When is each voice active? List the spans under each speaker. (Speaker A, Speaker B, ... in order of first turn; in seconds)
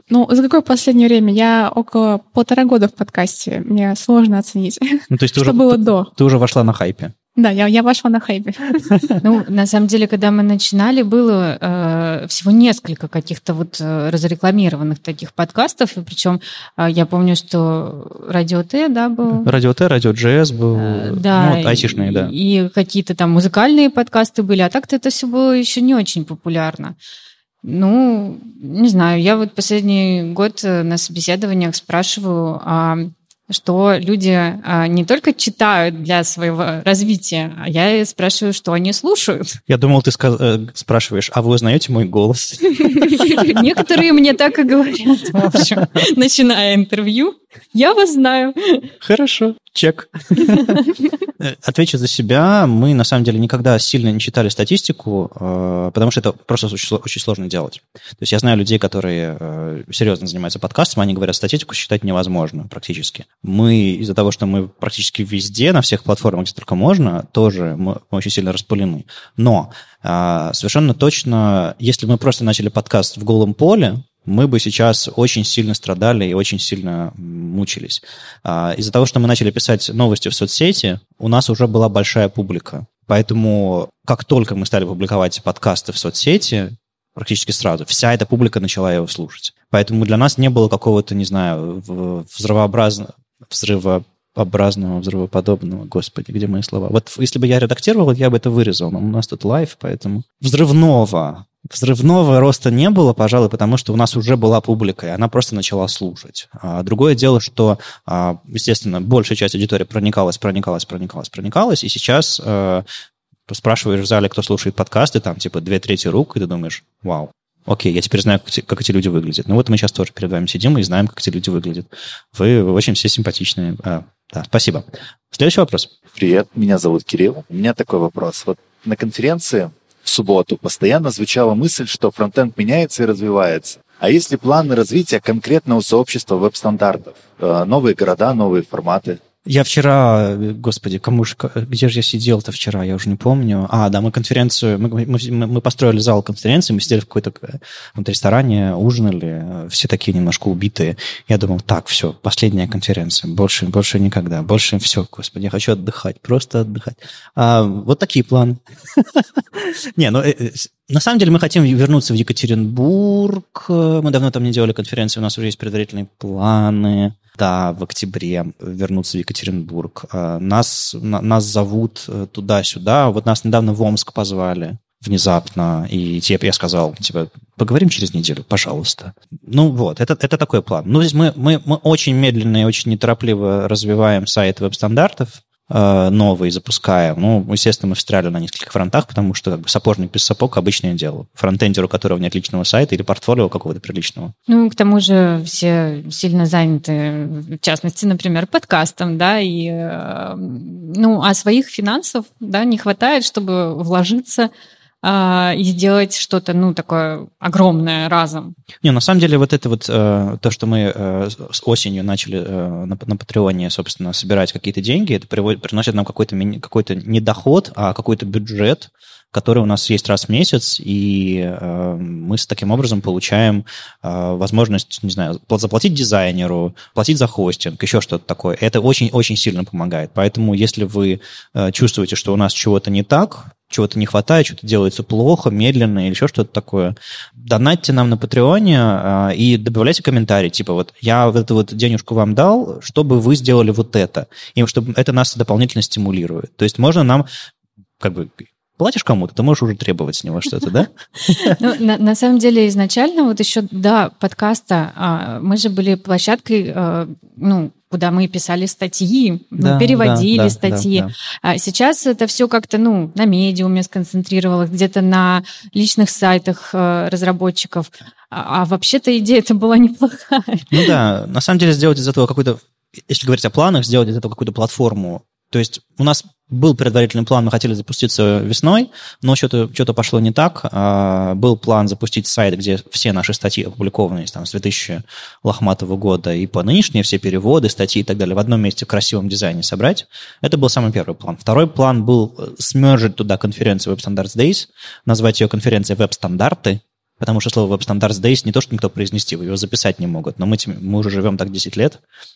Speaker A: 0.1-6.1, 7.4-8.9
Speaker B: 5.1-7.1, 19.4-22.3, 39.7-43.8, 49.0-50.8, 51.4-112.8, 113.5-125.9, 139.5-194.3, 208.8-247.3, 248.0-251.6, 259.6-261.1, 270.7-302.0
Speaker C: 9.2-19.5, 20.8-27.0, 27.6-39.6, 43.0-48.9, 50.5-50.9, 194.5-204.5, 205.0-208.5, 251.4-270.9
Speaker D: 126.1-139.2